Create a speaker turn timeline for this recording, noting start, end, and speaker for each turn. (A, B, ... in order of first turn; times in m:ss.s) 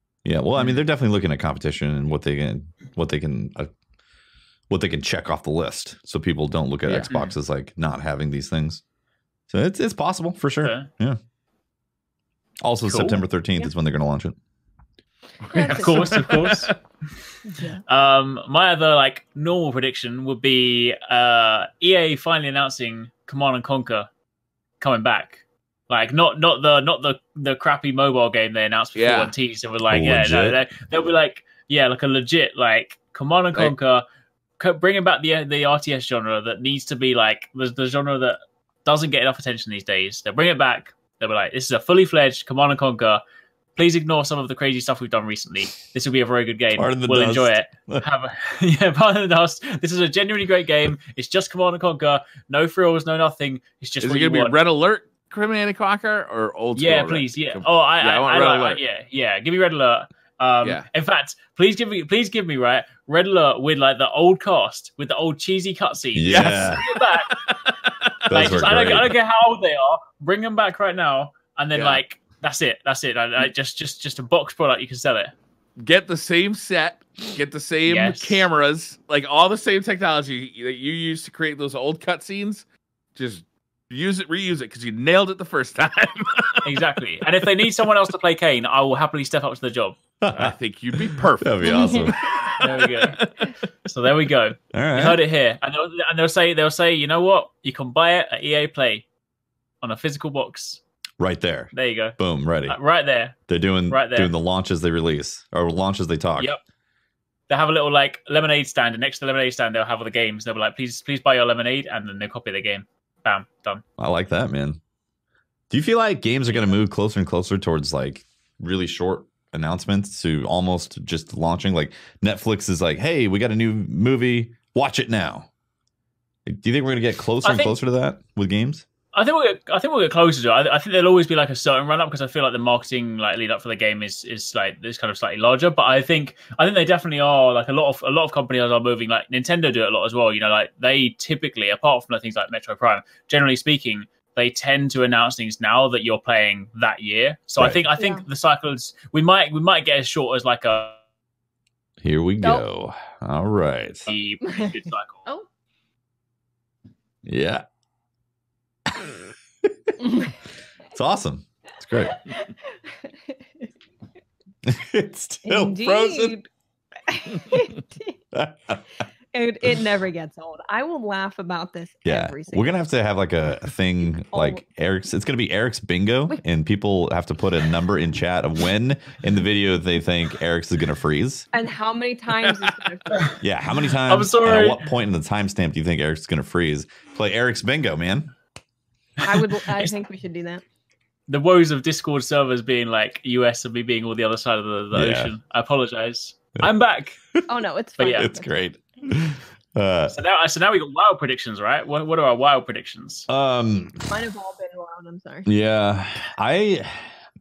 0:00.2-0:03.7 A
0:00.6-0:00.8 B
0:04.7-0:08.8 A
0:09.5-0:11.2 A
0:10.6-0:10.9 B
0:12.6-0:14.4 A
0:12.9-0:13.2 B
0:15.4-0:16.7 C
0:15.5-0:16.3 D
0:15.5-0:16.7 B
0:17.4-0:17.8 D
0:17.9-0:24.1 B
0:24.8-0:34.0 B
0:29.0-0:29.3 C
0:29.9-0:30.6 A
0:34.6-0:43.2 B
0:43.8-0:54.6 B
0:46.7-0:48.1 A
0:54.0-0:58.8 C
0:56.8-1:07.4 B
1:06.2-1:06.8 A
1:06.3-1:06.7 C
1:07.2-1:08.4 C
1:08.3-1:09.1 A
1:08.3-1:15.3 B
1:11.8-1:12.0 C
1:15.8-1:26.8 C
1:17.9-1:18.4 B
1:26.6-1:30.0 B
1:30.2-1:30.5 A
1:30.4-1:33.5 C
1:31.1-1:32.2 A
1:31.6-1:32.4 D
1:32.6-1:33.3 B
1:33.8-1:39.1 B
1:34.7-1:35.2 A
1:39.8-1:40.8 B
1:41.2-1:42.8 A
1:41.7-1:43.4 B
1:43.5-1:46.6 A
1:43.9-1:44.3 B
1:47.5-1:53.8 B
1:54.0-1:54.8 A
1:55.7-2:05.5 A
1:56.5-1:56.8 B
2:06.5-2:08.9 A
2:07.4-2:07.8 B
2:09.1-2:31.0 B
2:28.0-2:28.2 D
2:32.0-2:34.1 A
2:34.1-2:35.2 B
2:34.4-2:34.7 D
2:37.2-2:37.6 A
2:40.0-2:40.4 D
2:41.0-2:42.2 A
2:42.0-2:43.7 D
2:44.6-2:46.3 A
2:45.4-2:46.5 D
2:47.1-2:48.2 D
2:48.3-2:48.8 A
2:49.3-2:52.7 D
2:52.0-3:01.5 A
2:54.3-2:54.6 D
3:01.5-3:03.4 D
3:03.1-3:03.4 B
3:03.4-3:08.3 A
3:04.1-3:04.8 B
3:09.2-3:09.9 B
3:09.2-3:10.6 D
3:11.3-3:17.2 B
3:14.9-3:15.3 A
3:17.5-3:18.5 D
3:18.0-3:18.3 B
3:18.2-3:20.1 A
3:20.1-3:23.3 B
3:23.3-3:24.1 A
3:24.1-3:25.5 D
3:25.5-3:27.1 A